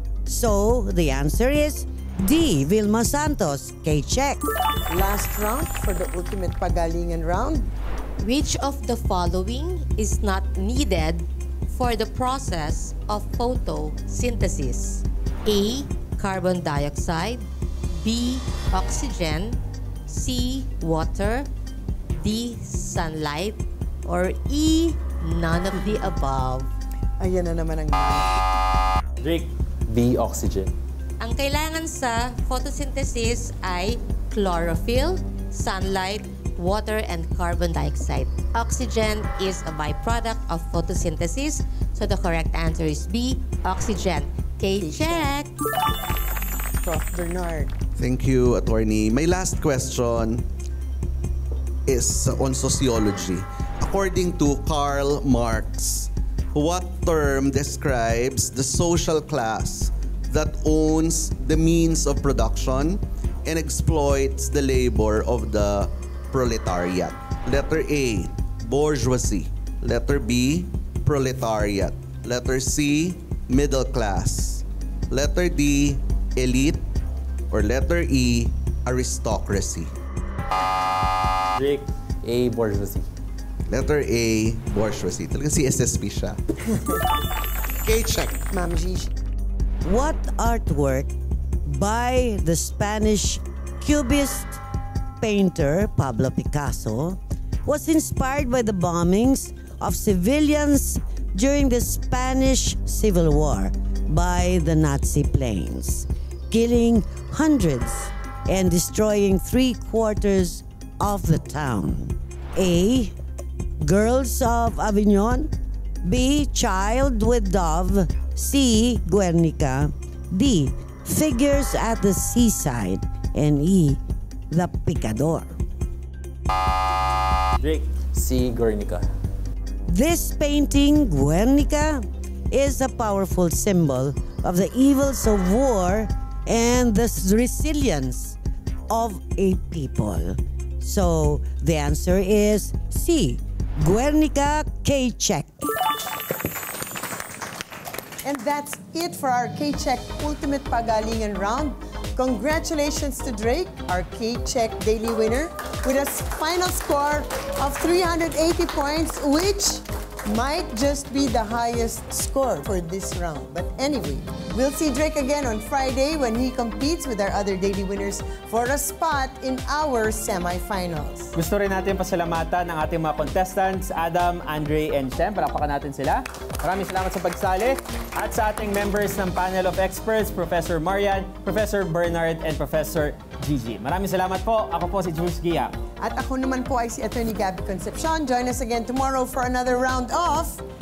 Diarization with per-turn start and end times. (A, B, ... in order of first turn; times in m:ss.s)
0:00.2-0:04.5 A
0:04.9-0:07.7 B
0:08.2-0:17.4 C
0:18.0-0:21.5 C
0:22.2-0:26.7 C
0:27.2-0:28.3 B
0:29.2-0:29.5 D
0:29.9-0:30.7 E
0:31.2-0:45.5 C
0:44.8-0:45.3 B
0:46.8-0:47.7 B
0:48.0-0:50.4 F
0:51.9-1:16.9 F
1:17.5-1:19.9 F
1:21.5-1:21.9 D
1:22.2-1:23.1 E
1:23.7-1:26.4 F
1:27.8-1:28.4 F
1:28.5-1:29.1 B
1:29.8-1:31.1 A
1:31.6-1:34.6 A
1:35.2-1:53.1 A
1:53.8-1:55.5 A
1:56.0-2:05.6 A
2:07.6-2:07.9 D
2:08.1-2:09.0 E
2:09.9-2:18.4 A
2:18.9-2:25.7 A
2:28.2-2:51.3 B
2:51.4-3:05.8 D
3:06.0-3:10.6 B